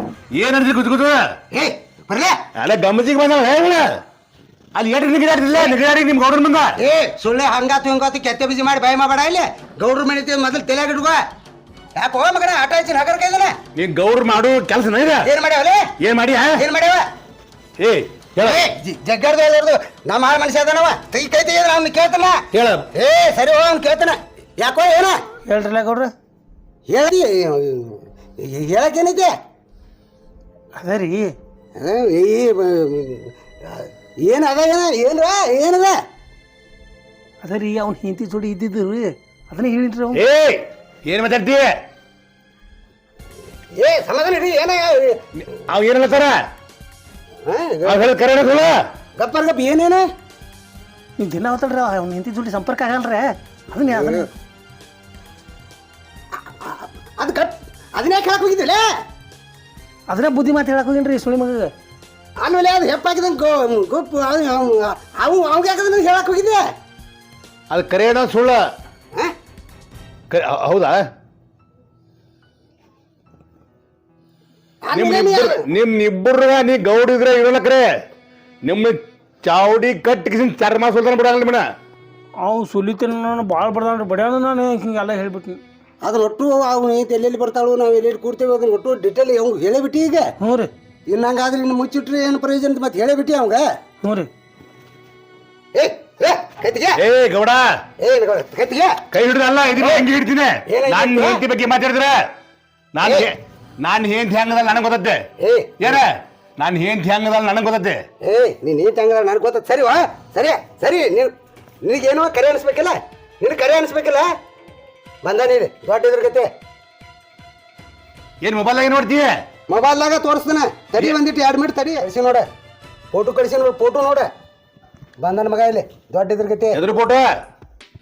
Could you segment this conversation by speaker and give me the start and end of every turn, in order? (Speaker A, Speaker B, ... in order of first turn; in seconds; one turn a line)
Speaker A: 0.3-1.3
Speaker B: 1.5-2.4
Speaker A: 2.6-3.9
Speaker A: 4.8-6.8
Speaker B: 6.8-11.2
Speaker B: 12.0-13.6
Speaker A: 13.8-15.3
Speaker B: 15.2-15.9
Speaker A: 16.0-16.6
Speaker B: 16.6-17.1
Speaker A: 17.8-18.6
Speaker B: 18.4-22.4
Speaker A: 22.5-22.9
Speaker B: 22.9-25.2
Speaker C: 25.5-26.1
Speaker B: 26.9-29.3
Speaker C: 30.8-31.3
Speaker B: 31.8-36.0
Speaker C: 37.4-40.2
Speaker A: 40.1-41.7
Speaker B: 43.8-45.2
Speaker A: 45.5-46.4
Speaker B: 47.5-48.1
Speaker A: 47.9-48.8
Speaker B: 49.2-50.1
Speaker C: 51.2-54.3
Speaker B: 53.9-54.3
Speaker B: 56.5-58.9
Speaker C: 60.1-61.7
Speaker B: 62.4-66.6
Speaker A: 67.7-68.6
Speaker A: 70.3-71.0
Speaker B: 74.8-75.6
Speaker A: 74.9-77.9
Speaker A: 78.7-81.6
Speaker C: 82.4-85.6
Speaker B: 86.0-90.3
Speaker C: 90.4-90.7
Speaker B: 91.1-93.7
Speaker C: 94.0-94.3
Speaker B: 95.7-97.0
Speaker A: 97.0-97.6
Speaker B: 98.0-99.0
Speaker A: 99.1-102.2
Speaker B: 99.8-100.1
Speaker B: 100.7-101.4
Speaker A: 103.0-105.2
Speaker B: 103.0-103.3
Speaker B: 105.4-106.0
Speaker A: 105.8-108.0
Speaker B: 108.2-111.3
Speaker B: 111.8-114.3
Speaker B: 115.2-116.5
Speaker A: 118.4-119.3
Speaker B: 119.7-122.5
Speaker B: 123.1-124.3
Speaker B: 125.2-126.8
Speaker A: 126.7-127.3